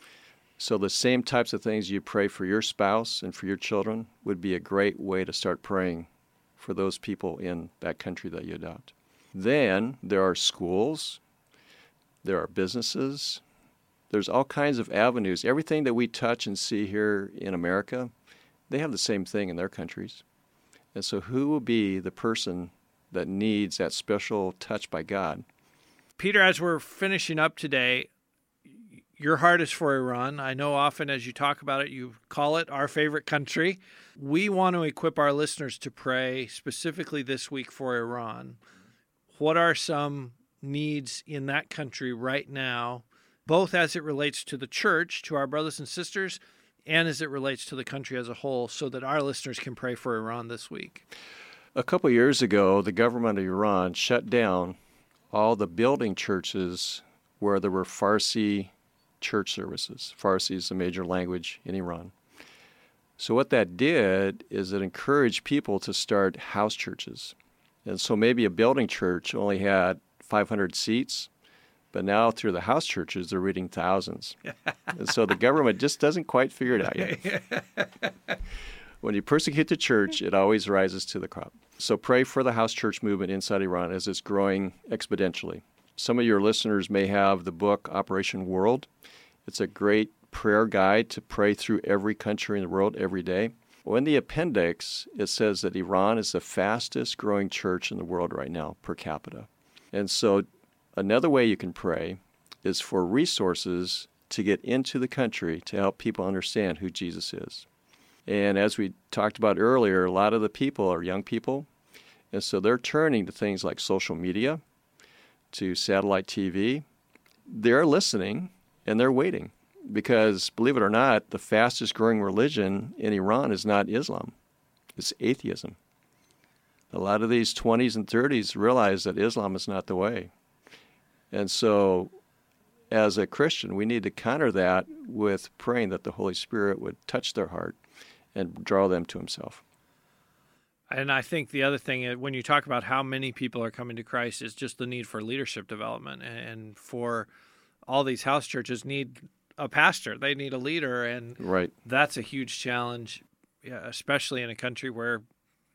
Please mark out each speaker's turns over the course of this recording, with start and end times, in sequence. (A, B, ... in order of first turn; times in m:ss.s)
0:00.6-0:11.2 A
0:12.2-0:13.4 A
0:14.1-0:18.1 A
0:18.7-0:20.2 A
0:20.9-0:25.4 A
0:26.2-0:28.1 B
0:29.2-0:38.6 B
0:39.3-0:51.0 B
0:51.8-0:54.8 A
0:55.3-1:02.1 A
1:03.2-1:11.3 A
1:11.9-1:14.4 A
1:14.9-1:17.3 A
1:17.0-1:17.9 B
1:19.0-1:28.9 A
1:29.5-1:47.7 A
1:48.3-1:51.7 A
1:52.3-1:54.6 A
1:55.5-1:56.8 A
1:57.5-2:04.3 A
2:05.0-2:05.8 A
2:06.9-2:10.3 A
2:11.3-2:12.1 A
2:12.9-2:17.8 A
2:18.3-2:19.6 A
2:20.9-2:27.3 B
2:27.9-2:35.2 B
2:31.4-2:31.7 A